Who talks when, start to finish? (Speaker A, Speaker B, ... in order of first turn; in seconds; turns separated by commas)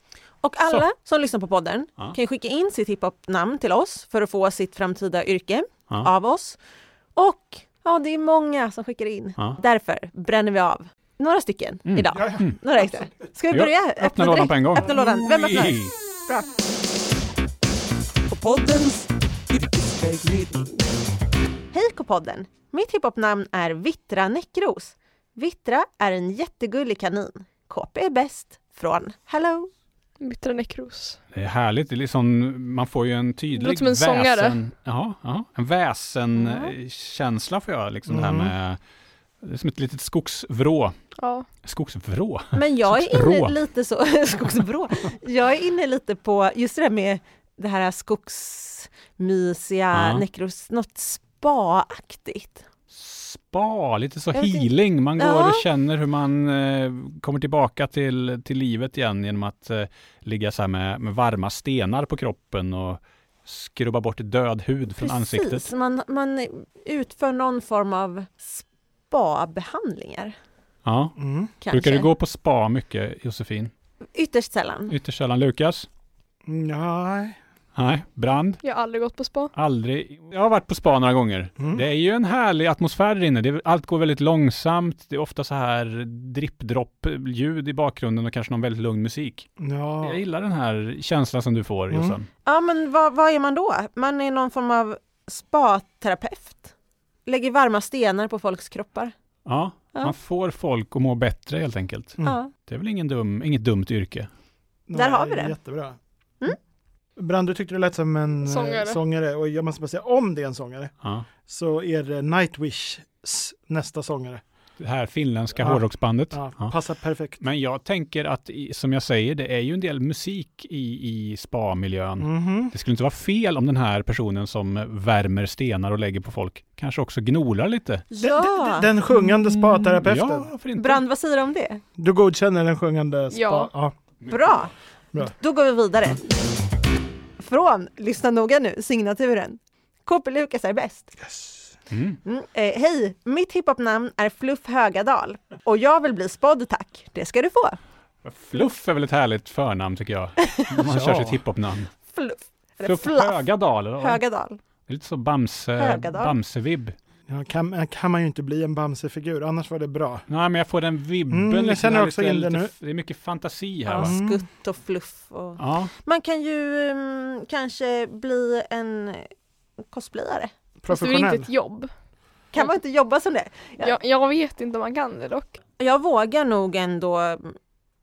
Speaker A: 0.4-6.6, Speaker A: 7.2-16.5, Speaker B: 11.9-12.6, Speaker C: 12.1-12.4, Speaker B: 13.5-15.9, Speaker A: 18.3-20.6, Speaker A: 21.7-29.7, Speaker D: 30.2-31.2, Speaker B: 31.3-38.8, Speaker D: 33.6-34.6, Speaker A: 36.4-36.7, Speaker C: 38.1-38.5, Speaker B: 39.4-41.0, Speaker D: 41.2-41.5, Speaker B: 41.6-43.5, Speaker A: 42.5-52.6, Speaker B: 49.9-50.2, Speaker B: 52.9-65.7, Speaker A: 54.3-55.6, Speaker A: 65.0-70.3, Speaker B: 70.8-71.2, Speaker C: 71.2-71.5, Speaker A: 71.6-72.1, Speaker B: 71.7-73.7, Speaker A: 74.2-74.9, Speaker B: 74.9-75.9, Speaker C: 76.5-77.4, Speaker B: 77.8-78.6, Speaker D: 78.6-79.5, Speaker B: 79.5-89.5, Speaker C: 89.6-90.2, Speaker B: 90.0-92.3, Speaker C: 91.9-92.2, Speaker A: 92.5-96.7, Speaker A: 97.3-99.1, Speaker B: 99.5-104.3, Speaker A: 102.2-102.5, Speaker C: 104.9-106.0, Speaker A: 105.0-105.5, Speaker C: 107.2-110.9, Speaker D: 108.5-109.0, Speaker B: 111.0-111.3, Speaker C: 111.5-114.4, Speaker B: 114.8-116.7, Speaker C: 115.6-117.4, Speaker B: 117.4-128.0, Speaker C: 122.2-122.7, Speaker A: 128.1-128.9, Speaker C: 128.2-130.5, Speaker B: 129.1-131.0, Speaker A: 130.8-131.8, Speaker C: 132.0-133.9, Speaker D: 133.3-133.7, Speaker B: 134.2-134.6, Speaker A: 134.3-136.2, Speaker A: 137.4-141.1, Speaker C: 141.2-141.7, Speaker B: 141.9-142.2, Speaker A: 142.2-147.8, Speaker B: 148.2-151.9, Speaker C: 150.9-151.4, Speaker A: 152.1-153.4, Speaker B: 152.8-154.2, Speaker A: 154.0-154.6, Speaker B: 154.9-156.9, Speaker A: 155.8-156.3, Speaker C: 157.3-160.3, Speaker B: 160.3-164.2, Speaker C: 161.3-162.7, Speaker A: 163.9-169.3, Speaker C: 164.0-164.4, Speaker B: 165.6-165.9, Speaker A: 169.8-170.5, Speaker C: 170.8-171.5, Speaker D: 170.9-171.9, Speaker A: 172.5-173.9, Speaker D: 173.8-175.6, Speaker A: 175.8-177.6